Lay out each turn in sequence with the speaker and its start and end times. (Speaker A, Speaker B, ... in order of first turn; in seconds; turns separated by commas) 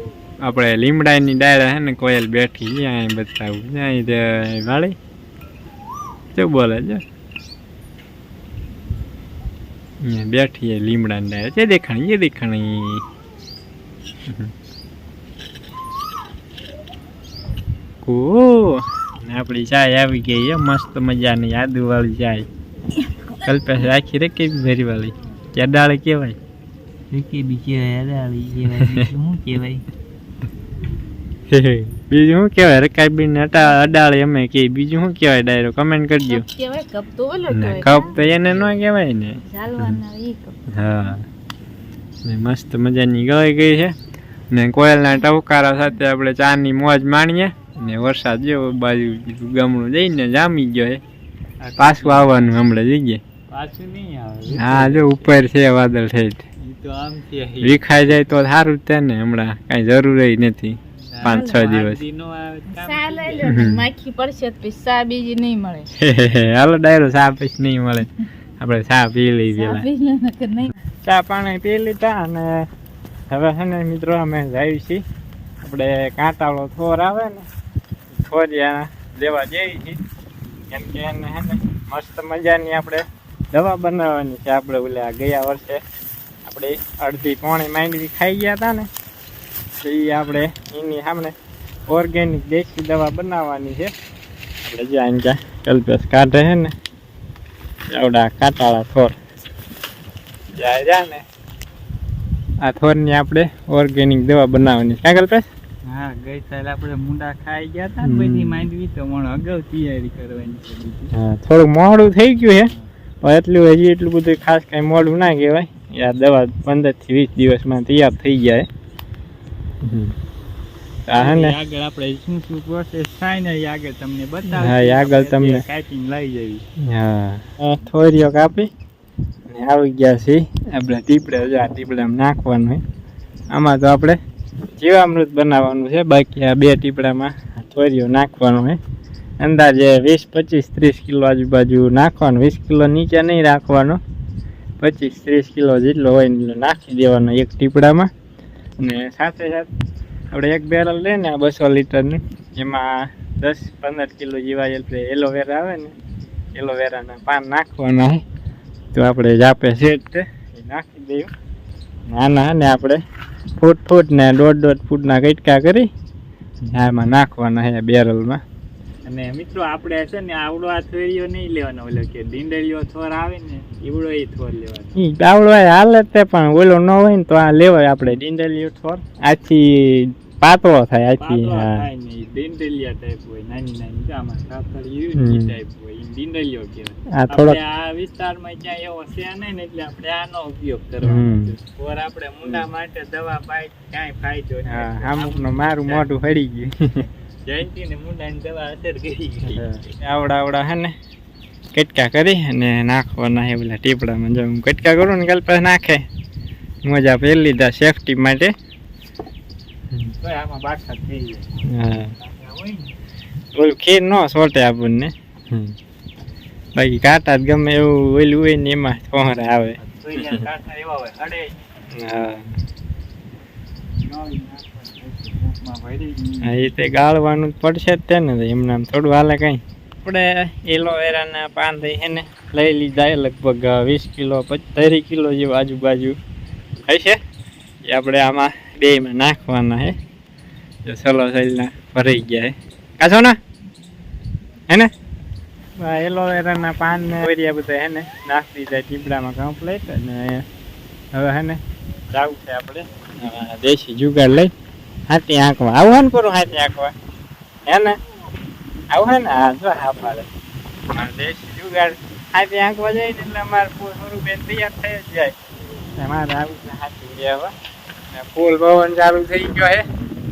Speaker A: 0.4-5.0, Speaker A: 6.3-7.0, Speaker A: 10.0-13.0, Speaker A: 14.3-14.5, Speaker A: 18.0-22.5, Speaker A: 23.4-26.4, Speaker B: 27.1-29.8, Speaker A: 31.5-36.5, Speaker C: 36.3-38.2, Speaker A: 37.5-40.0, Speaker C: 39.4-40.5, Speaker A: 40.7-41.2, Speaker A: 42.2-43.9, Speaker A: 44.5-51.0, Speaker B: 51.6-52.5, Speaker A: 51.8-53.2, Speaker B: 53.5-55.5, Speaker A: 54.5-56.4, Speaker B: 56.6-58.0, Speaker A: 57.6-62.0, Speaker B: 61.1-63.6, Speaker C: 61.2-61.7, Speaker C: 62.7-65.9, Speaker A: 63.4-63.8, Speaker A: 66.0-69.9, Speaker C: 69.5-70.7, Speaker A: 71.0-72.7, Speaker A: 73.3-75.0, Speaker A: 75.6-77.5, Speaker A: 78.1-80.0, Speaker A: 80.7-85.8, Speaker A: 86.4-88.9, Speaker A: 89.8-91.3, Speaker A: 91.9-93.9, Speaker A: 94.7-96.7, Speaker A: 97.9-99.2, Speaker A: 100.6-101.2, Speaker A: 102.6-105.5, Speaker B: 105.8-111.1, Speaker A: 108.0-108.7, Speaker A: 111.1-112.7, Speaker A: 113.2-118.7, Speaker A: 119.8-120.1, Speaker A: 121.1-121.6, Speaker B: 121.1-126.6, Speaker A: 124.6-125.6, Speaker A: 126.8-128.7, Speaker A: 129.5-132.8, Speaker A: 133.5-134.2, Speaker A: 134.8-138.8, Speaker A: 139.4-144.0, Speaker A: 144.8-148.1, Speaker A: 148.8-149.7, Speaker A: 150.3-155.9, Speaker A: 156.5-158.2, Speaker A: 158.9-161.3, Speaker A: 162.1-163.0, Speaker A: 163.6-165.9, Speaker A: 166.7-168.4, Speaker B: 169.0-174.9, Speaker A: 174.9-181.9, Speaker B: 181.2-196.1, Speaker A: 185.2-185.5, Speaker A: 187.1-187.6, Speaker A: 191.0-191.6, Speaker A: 194.7-197.1, Speaker B: 197.4-199.8, Speaker A: 199.5-200.9, Speaker A: 201.7-206.1, Speaker A: 206.8-208.5, Speaker B: 210.2-212.9, Speaker A: 211.7-212.1, Speaker A: 213.5-215.7, Speaker A: 216.8-219.8, Speaker B: 219.8-221.8, Speaker A: 221.9-222.5, Speaker B: 223.9-226.6, Speaker A: 226.4-236.2, Speaker A: 236.9-237.2, Speaker A: 237.9-239.9, Speaker A: 240.8-243.4, Speaker A: 245.8-250.4, Speaker A: 251.1-251.6, Speaker A: 252.1-254.5, Speaker A: 255.1-256.9, Speaker A: 257.7-258.0, Speaker A: 258.9-260.3, Speaker A: 260.9-265.3, Speaker A: 266.0-267.5, Speaker A: 268.1-269.8